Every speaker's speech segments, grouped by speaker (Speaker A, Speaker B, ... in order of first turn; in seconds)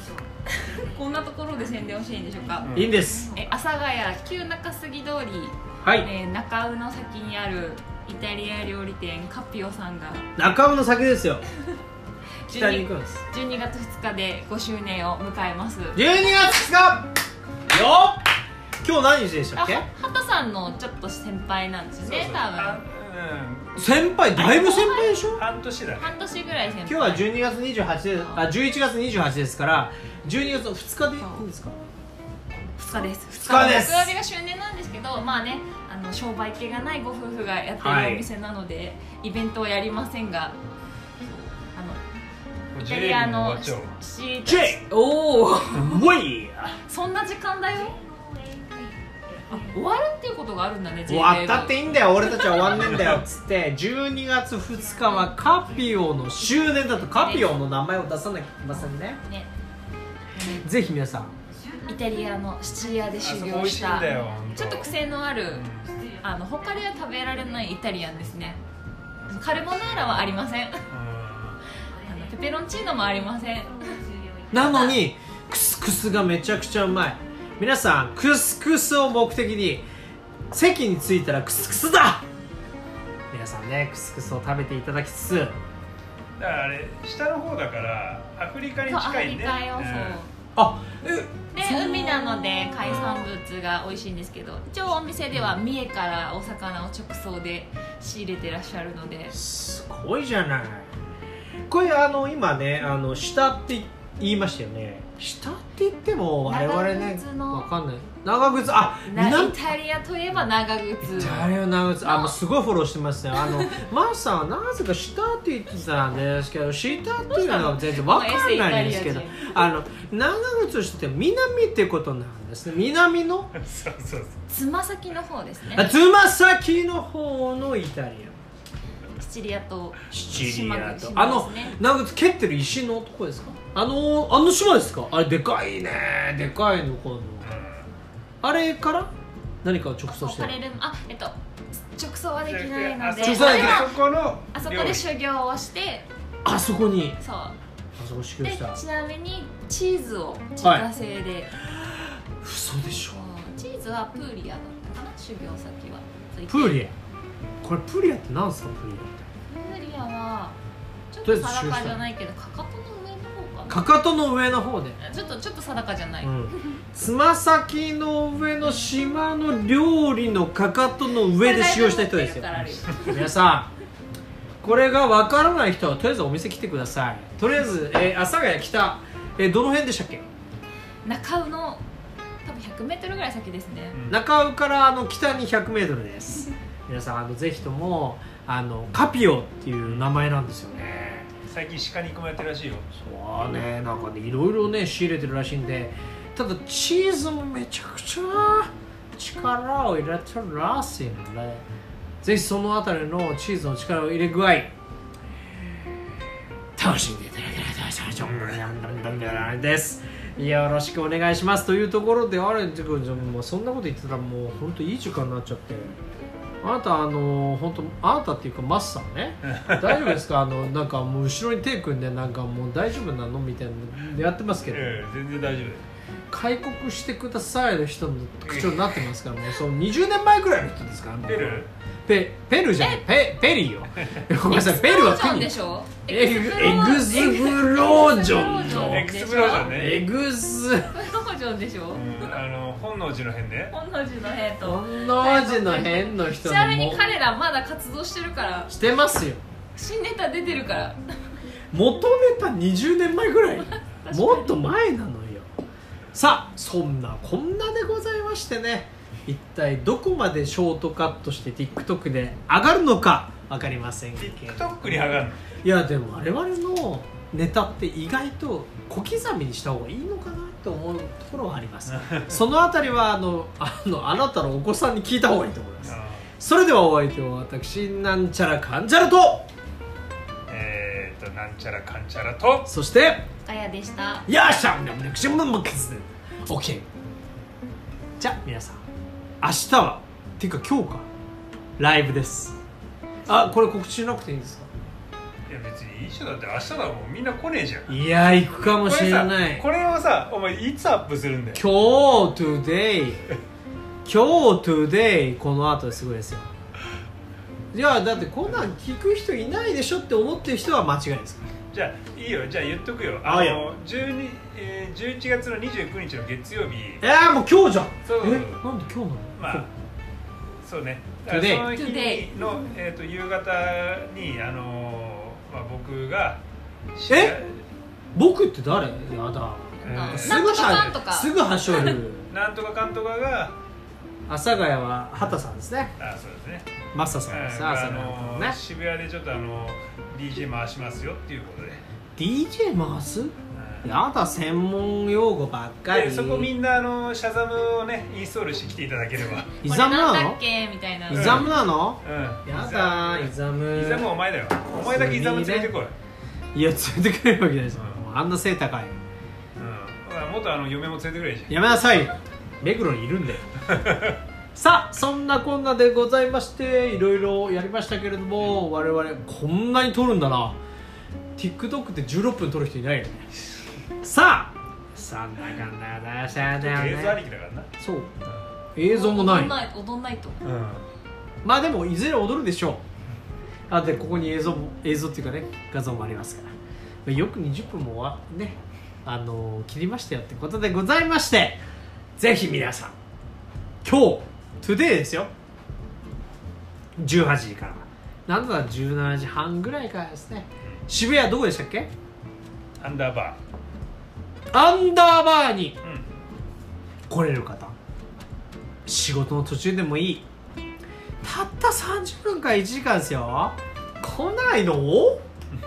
Speaker A: 0.5-2.7, 3.3-10.3, 12.5-16.0, 19.6-22.8, 24.3-25.2, 26.0-27.3, 28.2-28.5, 32.8-40.6, 41.2-42.0, 42.8-46.0, 46.9-48.0, 49.5-52.5, 57.1-57.5, 58.7-59.5, 61.9-68.6, 69.3-70.8, 72.0-73.8, 74.5-75.0, 88.9-90.3, 91.5-99.3, 106.4-107.7, 109.0-111.4, 112.0-112.3, 113.4-113.7, 117.3-119.6, 124.5-125.9, 129.2-131.8, 140.1-141.3, 141.9-143.9, 144.5-146.1, 147.2-147.6, 148.4-151.5, 153.1-156.8, 159.5-160.6, 161.1-163.8, 165.0-166.5, 171.3-173.3, 181.0-181.8, 182.4-184.0, 232.8-233.0, 234.4-239.7, 240.8-242.3, 243.7-248.7, 249.7-251.0, 253.6-254.6, 283.4-284.3, 321.7-322.3, 329.8-331.9, 349.6-351.5, 378.9-380.4
Speaker B: 2.6-3.0, 22.0-24.0, 25.3-26.2, 42.7-44.0, 52.9-53.2, 63.2-64.9, 65.5-66.0, 69.3-70.3, 70.9-71.6, 86.4-90.2, 92.8-93.2, 111.2-111.5, 123.6-124.3, 137.4-137.9, 142.4-145.0, 183.9-184.2, 189.8-190.1, 191.5-192.9, 208.2-208.5, 219.5-220.1, 224.7-225.8, 228.4-229.0, 231.2-231.7, 238.7-240.0, 241.9-243.7, 264.2-265.5, 271.9-272.4, 275.8-276.2, 280.5-282.7, 295.5-297.9, 298.6-301.6, 311.7-317.0, 318.0-318.6, 319.4-319.7, 320.6-326.4, 326.9-327.6, 329.8-330.9, 332.3-333.6, 336.0-336.7, 337.3-341.8, 343.5-343.9, 345.9-349.6, 351.1-355.9, 357.7-358.0, 359.6-361.5, 363.7-364.2, 376.6-377.7, 380.4-380.9, 402.8-403.4
Speaker C: 2.7-3.3, 5.8-6.1, 10.4-11.4, 12.5-13.2, 15.9-17.1, 17.7-18.2, 18.8-19.9, 23.8-25.4, 26.8-31.8, 33.3-34.1, 37.8-38.3, 44.4-44.8, 45.7-46.8, 51.1-59.2, 60.4-61.3, 74.5-79.8, 80.5-82.2, 83.3-85.5, 90.5-92.7, 99.3-100.9, 101.7-109.6, 111.2-123.5, 125.7-128.3, 130.1-137.5, 138.4-139.1, 139.6-140.6, 143.2-143.9, 146.4-147.2, 148.0-148.8, 150.6-150.8, 151.7-153.2, 156.5-156.9, 157.6-159.2, 161.2-162.0, 163.7-165.0, 166.2-173.7, 174.6-180.2, 184.1-191.3, 192.9-201.6, 202.2-204.7, 206.8-216.0, 216.6-225.0, 226.3-235.5, 236.1-240.9, 244.6-247.1, 248.7-249.4, 251.7-255.4, 256.1-279.5, 282.7-283.2, 284.3-286.9, 288.2-288.8, 289.4-291.1, 291.8-292.6, 293.2-294.7, 297.9-299.6, 301.5-303.3, 304.0-306.5, 307.7-311.5, 313.2-313.7, 317.0-319.7, 321.3-321.7, 327.1-327.4, 328.1-332.3, 334.3-335.9, 336.9-338.6, 342.1-346.5, 349.6-350.4, 351.1-354.1, 354.7-355.7, 356.5-358.9, 361.5-363.4, 364.5-370.6, 371.4-373.3, 374.0-377.2, 377.8-378.1, 378.8-379.6, 381.4-382.8, 383.7-386.5, 387.0-391.6, 392.2-392.9, 393.8-395.3, 397.0-401.9, 404.5-405.8, 407.1-407.7, 408.9-410.2, 411.2-415.2